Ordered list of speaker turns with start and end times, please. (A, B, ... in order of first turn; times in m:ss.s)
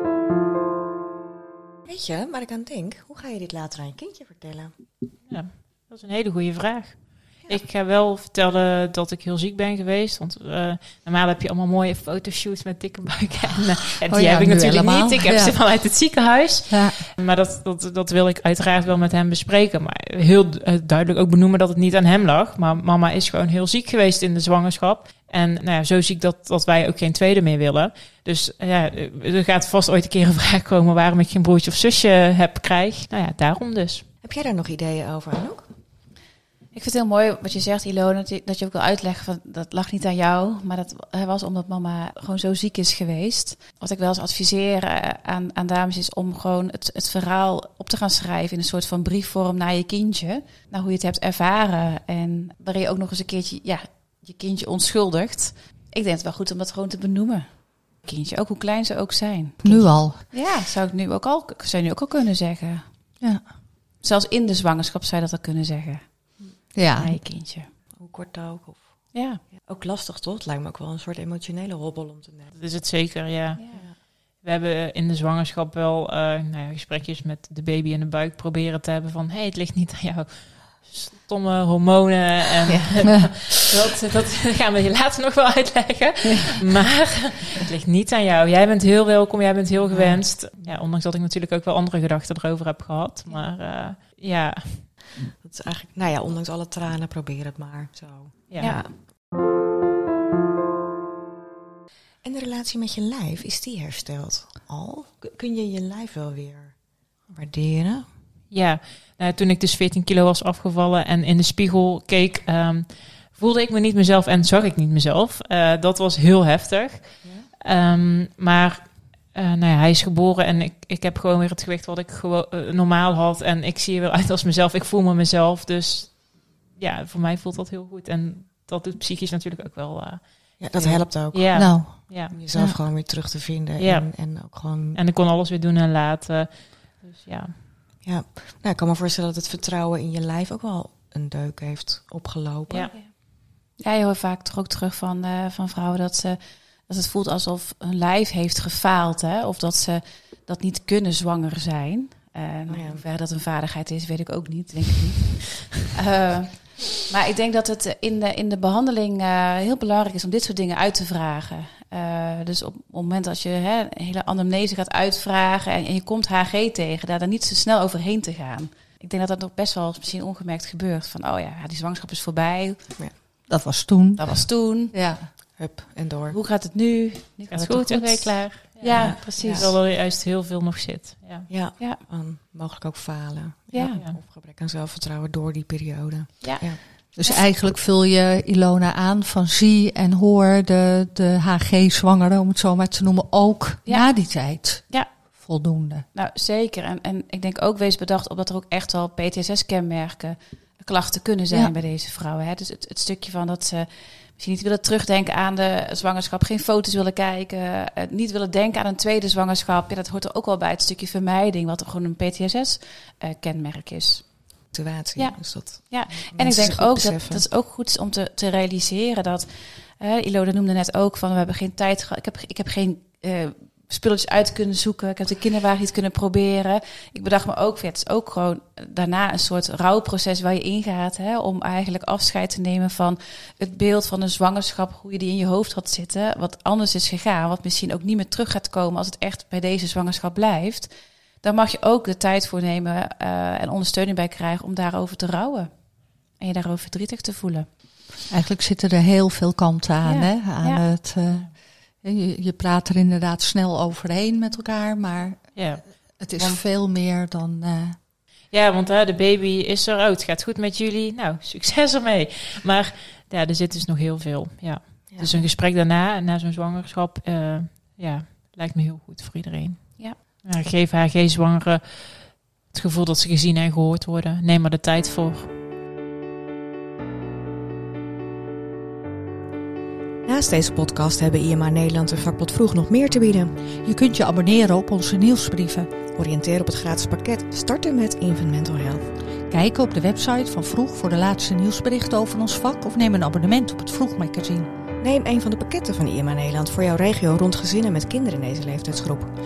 0:01.9-0:04.7 A
0:05.3-0:34.0 B
0:14.1-0:15.6 C
0:16.7-0:17.0 C
0:34.2-0:35.7 A
0:36.7-1:02.8 D
0:59.6-1:00.2 C
1:03.2-1:03.4 C
1:04.0-1:07.7 D
1:06.7-1:07.2 C
1:08.0-1:12.6 A
1:09.1-1:09.4 D
1:12.5-1:35.0 B
1:13.6-1:13.8 D
1:22.7-1:23.7 A
1:29.9-1:30.2 A
1:35.3-1:38.9 A
1:38.5-1:38.8 B
1:38.6-1:38.8 D
1:42.2-1:46.7 A
1:47.3-1:48.1 A
1:48.5-2:12.3 B
2:10.6-2:15.0 A
2:11.5-2:12.8 C
2:13.8-2:17.6 B
2:18.0-2:22.9 A
2:23.8-2:52.8 D
2:32.7-2:33.0 A
2:53.5-2:55.3 C
2:54.2-2:54.9 D
2:55.6-2:56.4 A
2:56.3-2:59.8 D
2:57.5-3:01.5 B
2:58.8-2:59.7 A
3:01.5-3:06.8 A
3:03.7-3:04.0 D
3:03.9-3:04.2 B
3:06.4-3:07.4 D
3:07.1-3:16.0 C
3:13.8-3:15.1 D
3:16.1-3:34.3 D
3:34.7-3:37.4 A
3:35.2-4:00.9 D
4:01.4-4:07.7 D
4:08.3-4:18.0 C
4:10.0-4:10.8 D
4:15.5-4:16.6 B
4:18.5-4:35.5 B
4:25.1-4:25.4 A
4:40.2-4:43.6 A
4:43.8-4:45.9 C
4:46.2-4:49.1 A
4:49.5-4:54.7 C
4:55.0-4:59.3 A